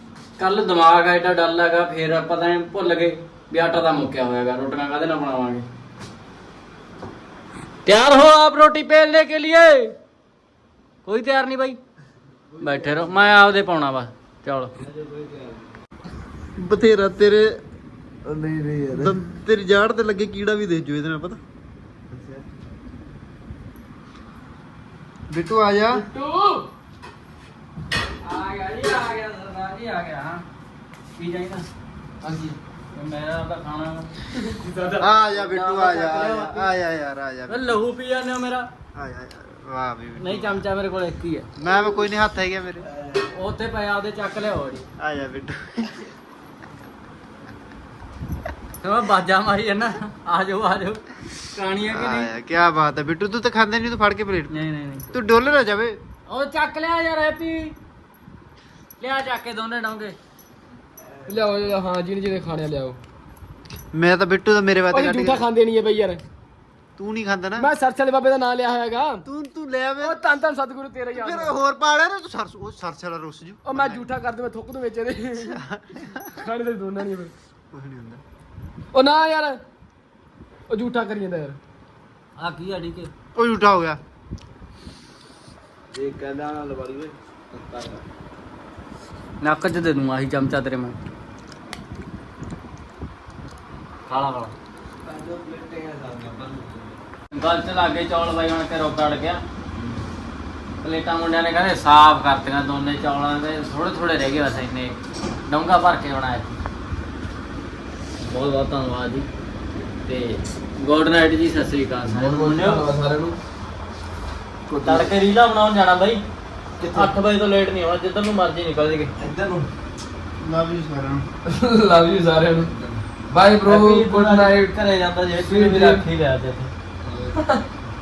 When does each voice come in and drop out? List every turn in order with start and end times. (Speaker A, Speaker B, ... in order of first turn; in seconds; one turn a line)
Speaker A: 0.4-5.6
Speaker A: 7.8-9.9
Speaker A: 11.1-11.8
Speaker A: 12.6-14.7
Speaker B: 14.9-15.6
Speaker C: 16.6-17.6
Speaker C: 18.3-21.4
Speaker B: 18.4-18.9
Speaker C: 25.3-26.0
Speaker D: 25.9-26.6
Speaker A: 28.2-30.4
Speaker A: 31.1-31.6
Speaker D: 32.2-32.5
Speaker A: 32.9-34.1
Speaker D: 34.3-35.1
Speaker C: 35.0-37.8
Speaker A: 35.3-36.7
Speaker A: 37.5-38.7
Speaker C: 38.9-40.6
Speaker A: 40.2-41.5
Speaker C: 41.6-42.9
Speaker A: 43.2-44.9
Speaker C: 45.0-46.1
Speaker A: 48.8-52.3
Speaker C: 51.9-54.5
Speaker A: 54.5-55.1
Speaker C: 55.1-56.0
Speaker A: 56.3-57.7
Speaker A: 59.0-60.1
Speaker D: 61.2-63.0
Speaker C: 63.9-65.4
Speaker D: 64.9-66.2
Speaker C: 67.0-67.7
Speaker D: 67.6-69.2
Speaker C: 69.2-70.2
Speaker D: 70.0-71.5
Speaker C: 71.1-74.1
Speaker D: 73.6-75.6
Speaker C: 75.4-76.4
Speaker D: 76.2-77.3
Speaker C: 77.7-78.2
Speaker D: 78.9-79.6
Speaker D: 80.7-81.6
Speaker A: 82.4-83.1
Speaker C: 83.3-84.0
Speaker B: 85.9-88.0
Speaker A: 89.4-91.0
Speaker A: 94.1-94.5
Speaker B: 95.0-96.9
Speaker A: 97.3-99.4
Speaker A: 100.8-106.6
Speaker A: 108.2-109.2
Speaker A: 110.0-112.8
Speaker D: 112.1-113.4
Speaker D: 114.7-115.0
Speaker A: 114.8-116.2
Speaker A: 116.9-119.1
Speaker B: 119.2-119.7
Speaker C: 120.4-121.2
Speaker D: 121.5-122.7
Speaker D: 123.3-124.7
Speaker A: 123.6-126.7
Speaker D: 125.5-126.0